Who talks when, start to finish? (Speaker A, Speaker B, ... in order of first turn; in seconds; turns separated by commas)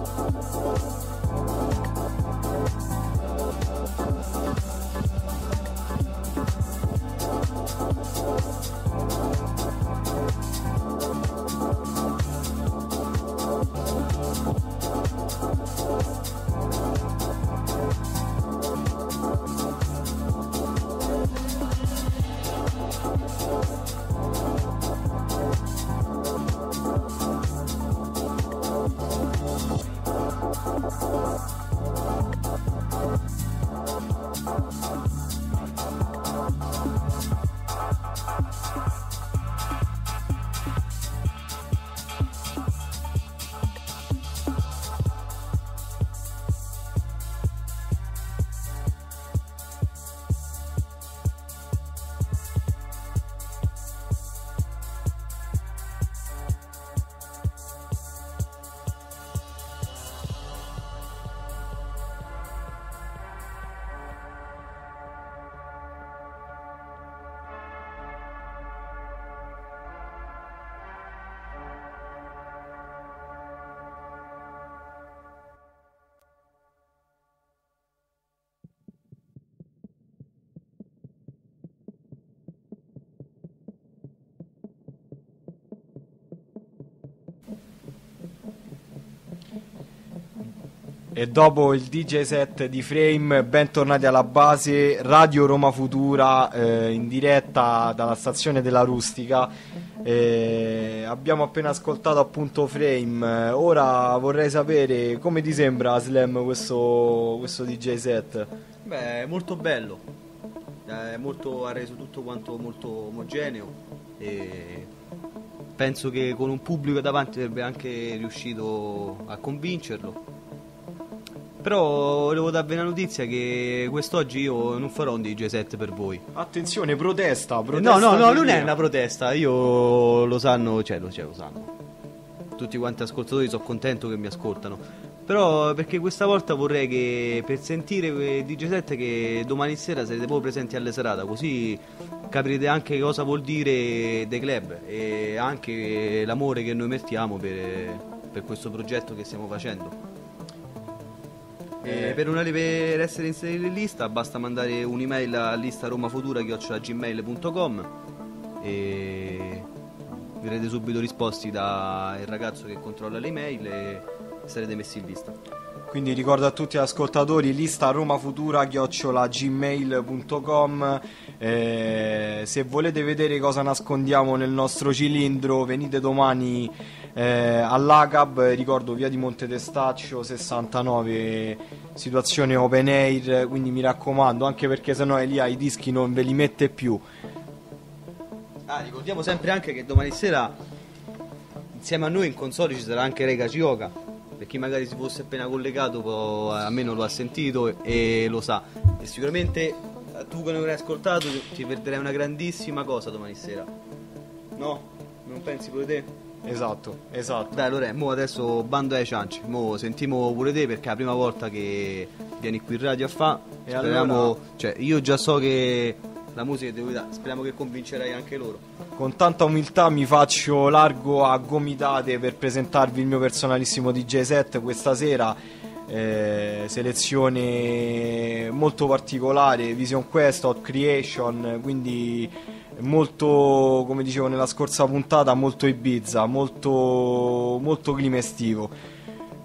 Speaker A: 91.1-99.5, Speaker A: 100.0-108.5, Speaker B: 108.8-110.0, Speaker B: 110.8-114.9, Speaker B: 115.8-120.2, Speaker B: 121.6-126.2, Speaker A: 126.3-128.7, Speaker B: 127.7-131.7, Speaker B: 132.6-149.9, Speaker B: 151.8-157.9, Speaker A: 151.8-152.2, Speaker B: 158.6-159.7, Speaker B: 160.4-165.3, Speaker A: 165.9-187.0, Speaker B: 188.7-190.6, Speaker B: 191.7-203.7, Speaker B: 204.6-206.1, Speaker A: 206.4-207.6, Speaker B: 207.5-218.6, Speaker A: 213.7-214.4, Speaker A: 219.0-238.7